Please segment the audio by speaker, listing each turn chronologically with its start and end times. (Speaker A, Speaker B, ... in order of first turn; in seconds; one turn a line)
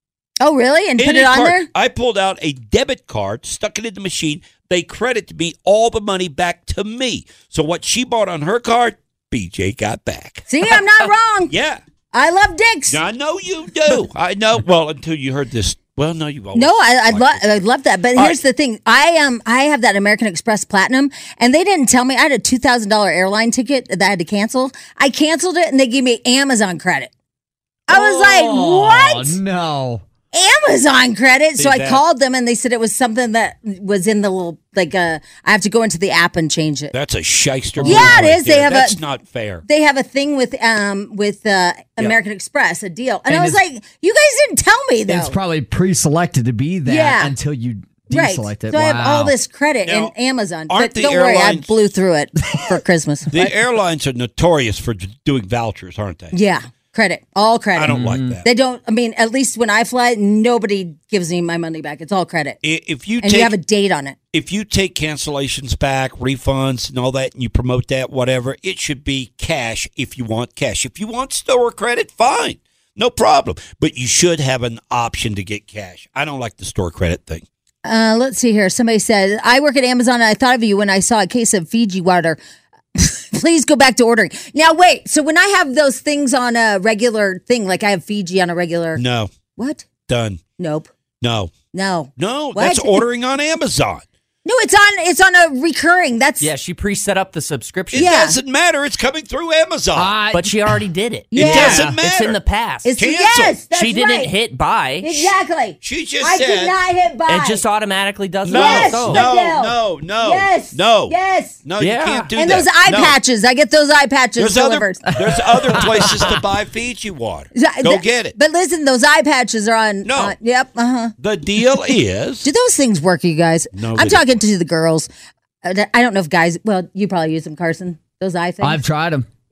Speaker A: 0.4-1.7
Speaker B: 1.0-10.5
Speaker A: 10.5-11.5
Speaker B: 11.5-11.8
Speaker A: 12.1-13.0
Speaker B: 12.9-17.6
Speaker A: 16.5-27.1
Speaker A: 27.9-29.4
Speaker C: 27.9-30.0
Speaker A: 30.3-36.9
Speaker B: 31.6-32.0
Speaker B: 36.9-39.6
Speaker C: 37.8-38.2
Speaker A: 37.8-39.0
Speaker A: 39.6-45.4
Speaker C: 43.3-43.6
Speaker C: 45.1-49.3
Speaker A: 46.9-47.3
Speaker A: 48.1-53.5
Speaker B: 49.8-50.1
Speaker B: 50.7-51.7
Speaker B: 53.3-56.3
Speaker A: 56.3-62.6
Speaker B: 57.7-58.4
Speaker C: 57.9-58.4
Speaker B: 62.6-63.5
Speaker A: 63.2-64.2
Speaker B: 64.3-77.4
Speaker A: 77.8-82.4
Speaker A: 83.0-89.0
Speaker B: 89.0-89.3
Speaker A: 89.6-89.8
Speaker B: 90.1-90.4
Speaker A: 90.6-90.9
Speaker B: 91.2-91.5
Speaker A: 91.7-93.0
Speaker B: 92.2-94.0
Speaker A: 94.4-96.5
Speaker D: 96.4-98.1
Speaker B: 97.9-100.2
Speaker A: 97.9-98.4
Speaker C: 99.9-100.8
Speaker D: 100.3-102.9
Speaker A: 101.3-101.9
Speaker B: 101.3-102.4
Speaker C: 101.5-101.9
Speaker A: 102.8-104.3
Speaker B: 103.0-103.5
Speaker D: 103.7-105.3
Speaker A: 105.0-107.6
Speaker B: 105.8-106.7
Speaker D: 107.3-109.2
Speaker B: 108.4-113.2
Speaker A: 108.5-111.6
Speaker D: 111.8-112.3
Speaker A: 112.3-115.0
Speaker B: 114.4-118.3
Speaker C: 115.3-116.4
Speaker A: 117.5-121.1
Speaker B: 120.0-120.3
Speaker B: 121.2-122.5
Speaker A: 122.4-125.1
Speaker B: 123.7-124.3
Speaker A: 125.6-128.8
Speaker C: 128.6-129.2